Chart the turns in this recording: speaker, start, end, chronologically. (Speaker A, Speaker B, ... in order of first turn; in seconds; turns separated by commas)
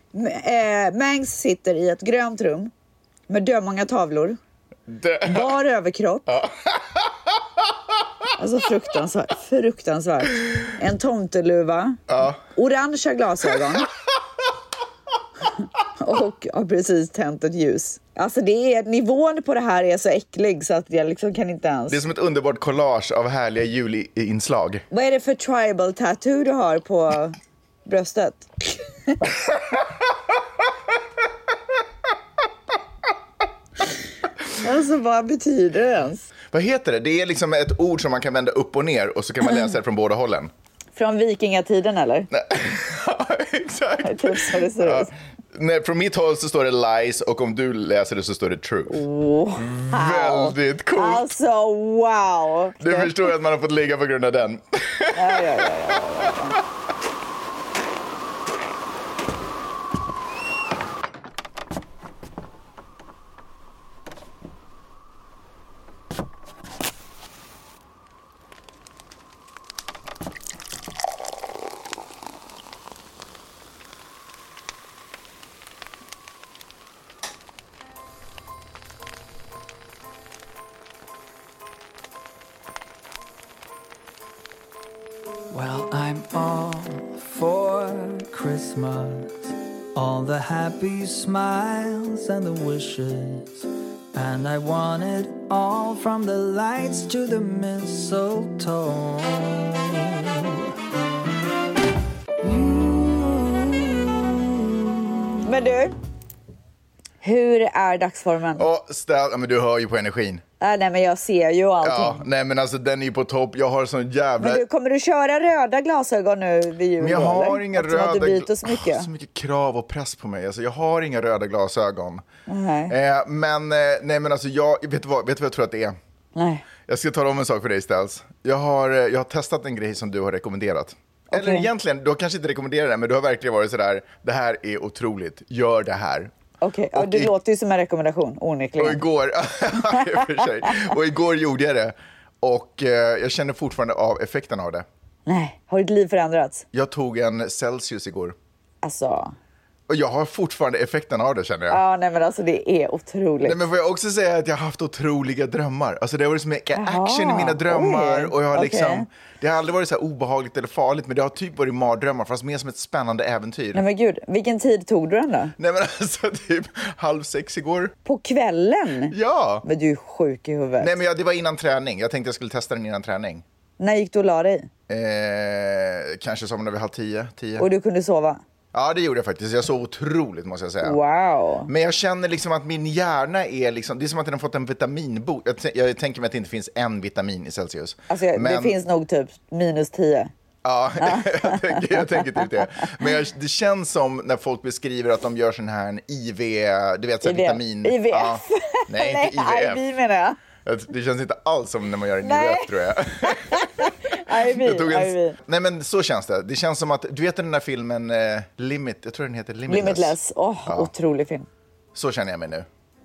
Speaker A: 0.1-2.7, Speaker A: 3.3-4.4, Speaker B: 4.9-5.5, Speaker A: 5.2-6.4, Speaker B: 6.3-7.4, Speaker A: 8.4-12.0, Speaker B: 12.1-12.4, Speaker A: 12.5-13.9, Speaker A: 15.9-22.0, Speaker B: 21.9-24.8, Speaker A: 24.9-28.5, Speaker A: 34.6-36.2, Speaker B: 36.5-40.5, Speaker A: 41.0-42.3, Speaker B: 42.3-49.0, Speaker A: 44.0-45.1, Speaker A: 48.9-53.3, Speaker B: 49.6-51.3, Speaker B: 52.8-56.4, Speaker A: 55.1-56.6, Speaker C: 85.5-100.6, Speaker C: 102.4-105.1, Speaker A: 105.4-105.9, Speaker A: 107.2-108.7, Speaker B: 108.5-110.4, Speaker A: 110.6-112.2, Speaker B: 111.8-114.6, Speaker A: 114.4-119.1, Speaker B: 117.0-122.2, Speaker A: 122.5-122.9, Speaker B: 122.9-126.0, Speaker A: 126.3-126.6, Speaker B: 126.9-136.3, Speaker A: 131.3-131.7, Speaker A: 136.6-139.0, Speaker B: 136.9-137.3, Speaker B: 138.8-144.8, Speaker A: 139.9-140.8, Speaker A: 145.2-146.6, Speaker B: 146.7-148.3, Speaker A: 148.8-149.3, Speaker B: 149.9-151.8, Speaker A: 151.7-153.6, Speaker B: 153.4-163.8, Speaker A: 156.7-159.1, Speaker A: 163.7-165.5, Speaker B: 165.6-167.9, Speaker A: 168.0-170.9, Speaker B: 169.1-169.6, Speaker B: 170.8-173.4, Speaker A: 173.8-174.7, Speaker B: 174.9-177.7, Speaker A: 177.6-178.4, Speaker B: 178.7-181.0, Speaker A: 180.8-181.7, Speaker B: 181.7-188.8, Speaker A: 188.1-190.3, Speaker B: 190.6-199.8, Speaker A: 191.0-192.5, Speaker A: 197.2-200.4, Speaker B: 200.6-210.9, Speaker A: 202.2-205.3, Speaker A: 209.7-211.5, Speaker B: 211.9-212.7